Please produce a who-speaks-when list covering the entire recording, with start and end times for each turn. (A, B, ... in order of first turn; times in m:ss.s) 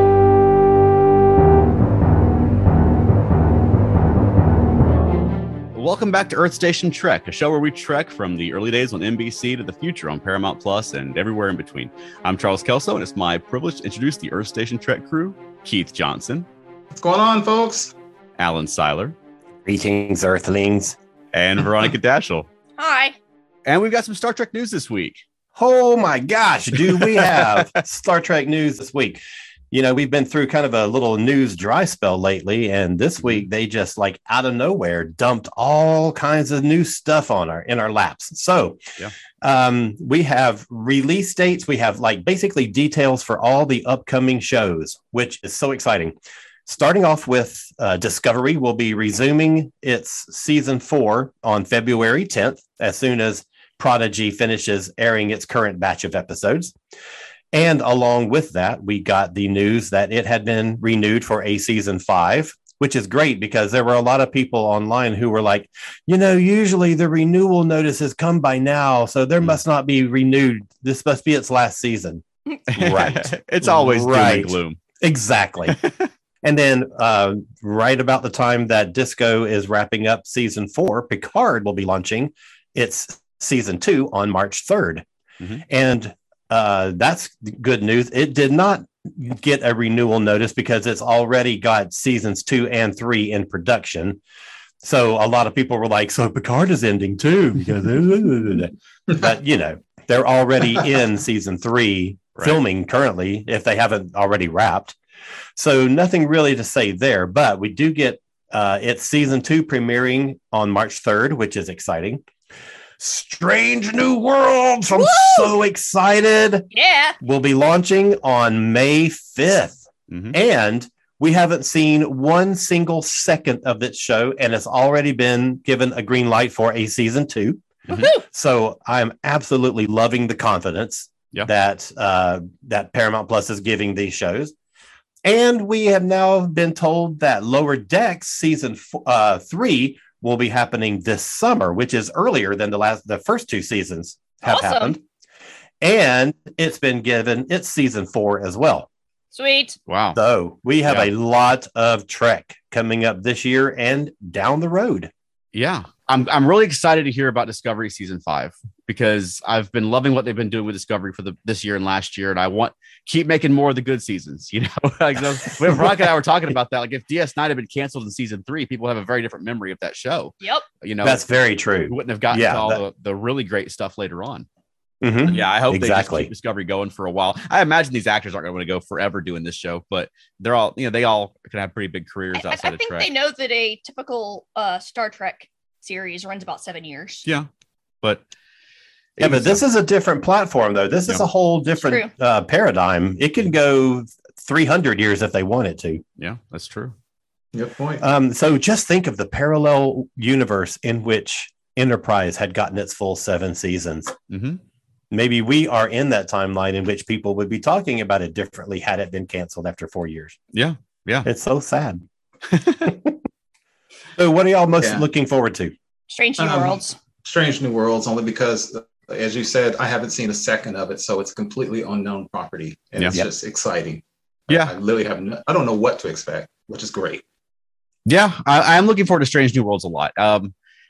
0:05.7-0:16.5 A
0:16.9-0:17.9 B
0:18.4-0:19.1 A
0:19.6-0:21.0 C
0:21.3-0:22.5 A
0:22.8-0:23.2 D
0:23.6-0:25.2 A
0:25.6-0:38.8 C
0:26.8-0:27.8 A
0:33.2-0:33.4 A
0:39.4-0:46.2 C
0:46.7-0:56.7 C
0:57.5-1:15.8 C
1:12.7-1:14.8 A
1:15.7-1:16.0 A
1:16.4-1:25.0 C
1:25.7-1:34.2 C
1:34.8-1:45.0 C
1:42.4-1:42.6 A
1:45.6-1:52.2 C
1:53.0-1:56.6 C
1:54.9-1:55.5 D
1:56.7-1:57.2 D
1:57.2-2:14.5 C
2:00.1-2:00.4 A
2:07.9-2:08.1 A
2:07.9-2:08.2 D
2:15.2-2:25.0 C
2:24.4-2:25.0 D
2:25.8-2:28.9 C
2:29.3-2:29.8 D
2:29.9-2:30.2 A
2:30.1-2:35.1 C
2:35.5-2:51.2 A
2:51.0-2:52.8 C
2:51.9-2:54.5 A
2:55.0-2:56.3 C
2:55.3-3:03.1 A
3:02.3-3:07.2 D
3:09.2-3:16.0 C
3:09.2-3:09.6 A
3:11.8-3:12.1 D
3:16.2-3:16.9 A
3:17.5-3:18.0 B
3:18.0-3:24.1 C
3:24.3-3:24.6 A
3:25.1-3:30.4 C
3:30.5-3:31.3 A
3:31.2-3:32.0 C
3:32.5-3:32.9 A
3:34.2-3:35.7 C
3:34.8-3:35.0 B
3:36.1-3:37.0 D
3:36.4-3:47.2 B
3:48.0-3:50.5 A